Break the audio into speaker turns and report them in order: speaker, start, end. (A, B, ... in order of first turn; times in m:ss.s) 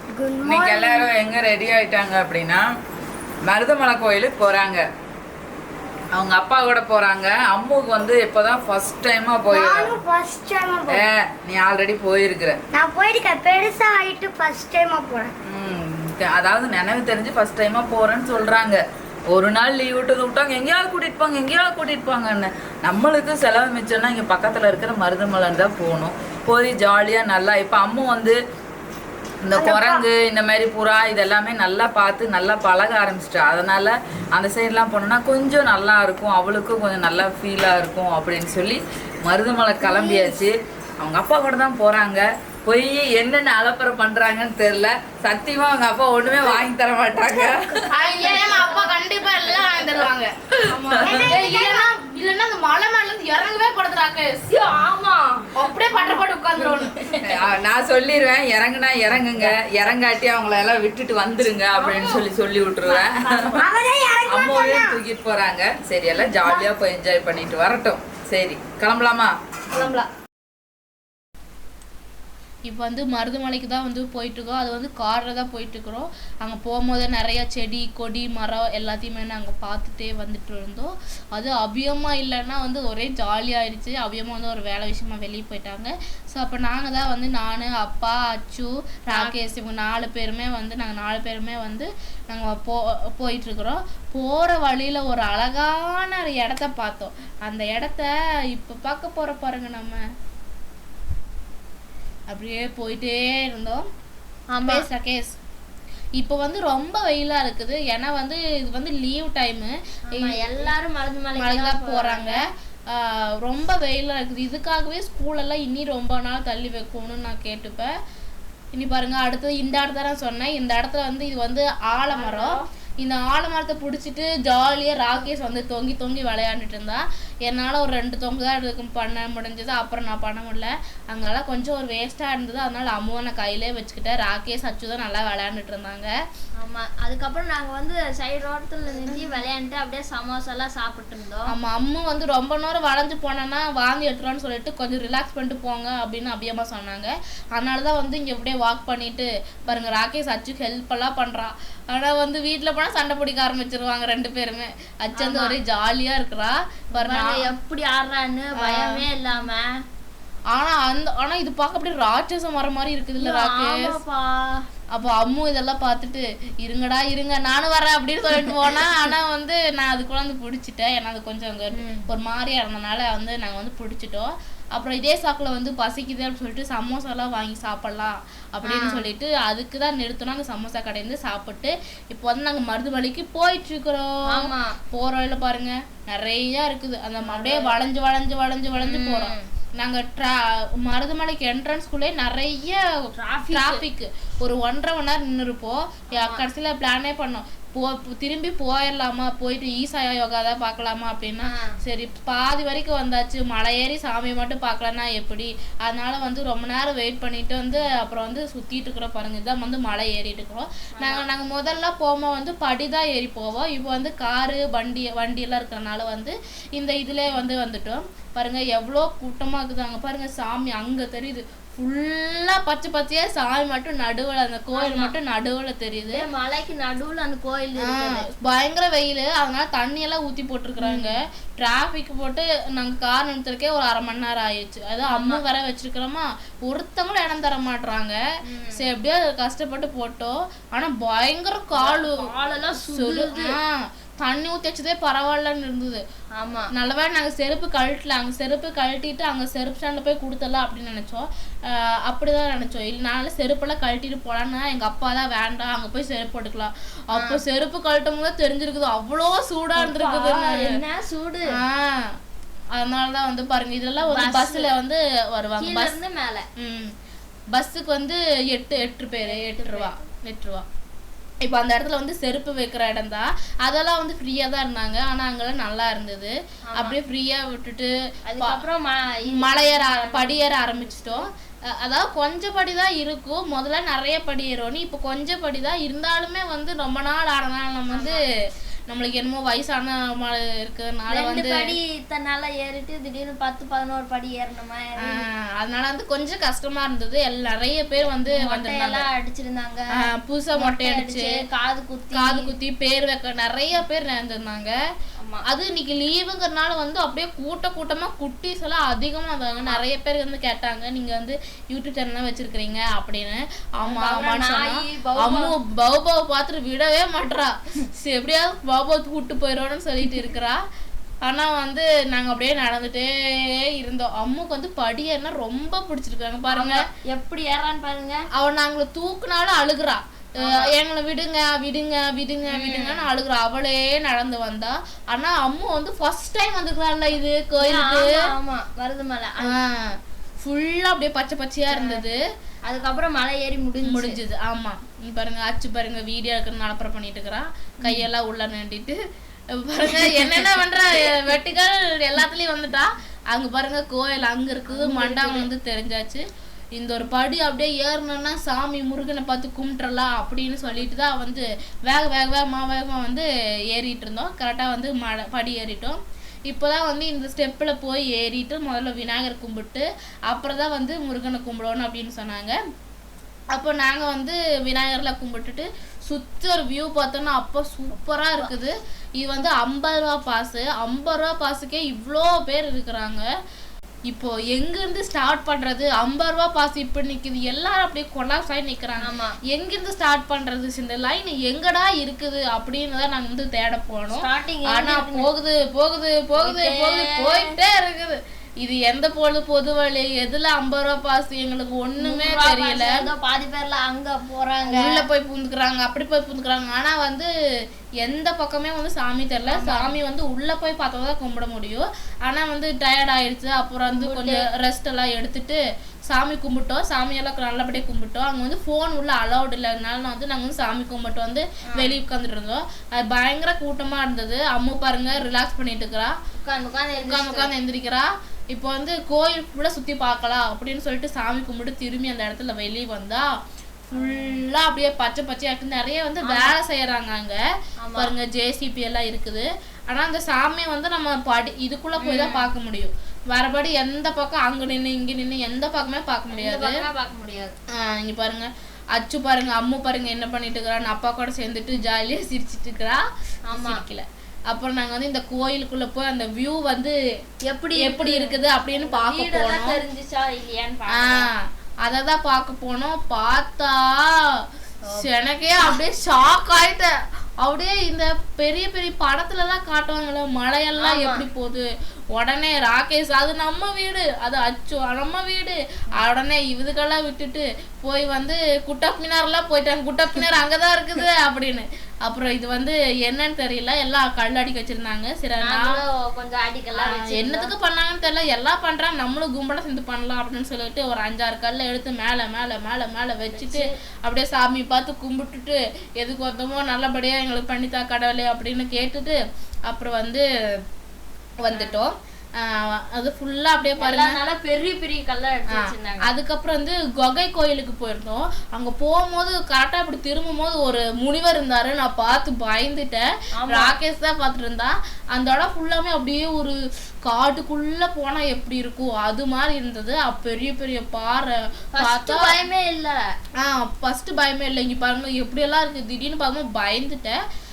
0:00.2-0:01.1 A
0:00.4-0:02.6 B
0:03.5-0:04.8 B
0:06.1-0:10.0 B
0:09.5-0:11.1 A
0:10.9-0:12.6 B
0:12.7-0:15.3 A
0:15.5-0:28.4 B
0:29.4-0:47.8 B
0:29.5-0:30.0 A
0:39.8-0:40.4 A
0:47.4-0:47.8 A
0:47.9-0:54.5 C
0:49.6-0:49.9 D
0:50.8-0:51.3 B
0:50.9-0:51.9 A
0:54.5-0:55.5 D
0:55.5-0:57.0 C
0:57.2-1:03.6 B
1:01.8-1:02.2 D
1:02.9-1:03.6 D
1:03.6-1:05.0 A
1:04.3-1:09.3 B
1:06.2-1:06.6 A
1:09.8-1:10.0 A
1:12.7-1:40.0 C
1:42.3-1:43.9 C
1:44.5-1:44.8 D
1:44.7-1:45.4 C
1:46.2-1:50.7 C
1:50.1-1:52.4 D
1:51.4-1:57.9 C
1:58.7-2:16.1 C
2:02.1-2:02.6 D
2:16.6-2:21.5 D
2:19.0-2:19.4 C
2:21.5-2:37.5 C
2:29.7-2:30.0 D
2:35.2-2:35.6 D
2:37.0-2:39.8 D
2:38.6-2:39.0 C
2:40.5-2:43.9 C
2:43.2-2:44.7 D
2:44.9-3:12.8 C
2:51.7-2:52.0 D
2:58.6-2:59.1 D
3:04.3-3:04.8 D
3:07.2-3:07.7 D
3:08.8-3:09.5 D
3:13.2-3:13.8 D
3:13.5-3:46.2 C
3:16.2-3:16.4 D
3:21.4-3:21.7 D
3:31.0-3:31.2 D
3:44.8-3:45.1 D
3:46.1-3:48.2 D
3:47.9-3:58.2 C
3:50.8-3:51.1 D
3:55.1-3:55.4 D
3:58.4-3:58.8 D
3:58.8-4:02.2 C
4:01.8-4:03.6 D
4:02.8-4:06.0 C
4:06.4-4:06.7 D
4:06.7-4:20.7 C
4:19.8-4:21.6 D
4:21.5-4:22.2 C
4:22.8-4:25.9 C
4:24.0-4:24.7 D
4:25.6-4:26.5 D
4:26.6-4:26.9 C
4:27.5-4:30.6 C
4:29.2-4:30.0 D
4:31.4-4:38.6 C
4:36.7-4:37.0 D
4:38.3-4:41.3 D
4:39.3-4:51.8 C
4:47.9-4:48.2 D
4:51.1-4:55.2 D
4:55.1-4:59.0 C
4:58.2-4:59.8 D
5:00.0-5:01.4 C
5:00.6-5:02.5 D
5:02.1-5:04.8 C
5:05.4-5:20.6 C
5:09.6-5:09.8 D
5:13.9-5:15.5 D
5:21.2-5:26.8 C
5:26.5-5:28.2 D
5:28.3-5:38.1 C
5:30.4-5:30.7 D
5:32.5-5:33.0 D
5:37.6-5:39.6 D
5:39.4-5:42.2 C
5:41.7-5:42.0 D
5:42.7-5:44.2 D
5:43.8-5:49.0 C
5:47.8-5:48.1 D
5:49.5-5:56.2 C
5:54.7-5:55.5 D
5:56.8-6:12.6 C
6:13.5-6:23.3 C
6:24.1-6:43.0 C
6:29.0-6:29.4 D
6:34.1-6:35.3 D
6:36.4-6:37.5 D
6:42.0-6:45.0 D
6:44.7-6:47.3 C
6:48.0-7:06.1 C
6:49.5-6:50.0 D
6:53.9-6:54.4 D
7:06.4-7:07.5 D
7:07.0-7:13.3 C
7:13.9-7:17.4 C
7:14.0-7:14.4 D
7:16.2-7:16.6 D
7:17.8-7:18.1 D
7:18.0-7:26.8 C
7:22.0-7:22.4 D
7:26.3-7:27.6 D
7:27.8-7:33.0 C
7:33.5-7:33.8 D
7:33.5-7:37.0 C
7:37.4-7:41.3 D
7:37.8-7:39.8 C
7:41.0-7:44.1 C
7:45.0-8:05.8 C
7:50.8-7:51.2 D
8:05.4-8:07.5 D
8:06.9-8:19.2 C
8:13.3-8:13.8 D
8:19.7-8:20.2 C
8:21.4-8:24.2 C
8:23.8-8:26.1 D
8:26.0-8:36.6 C
8:33.4-8:33.7 D
8:37.1-8:42.4 C
8:41.8-8:43.0 D
8:43.4-8:47.2 C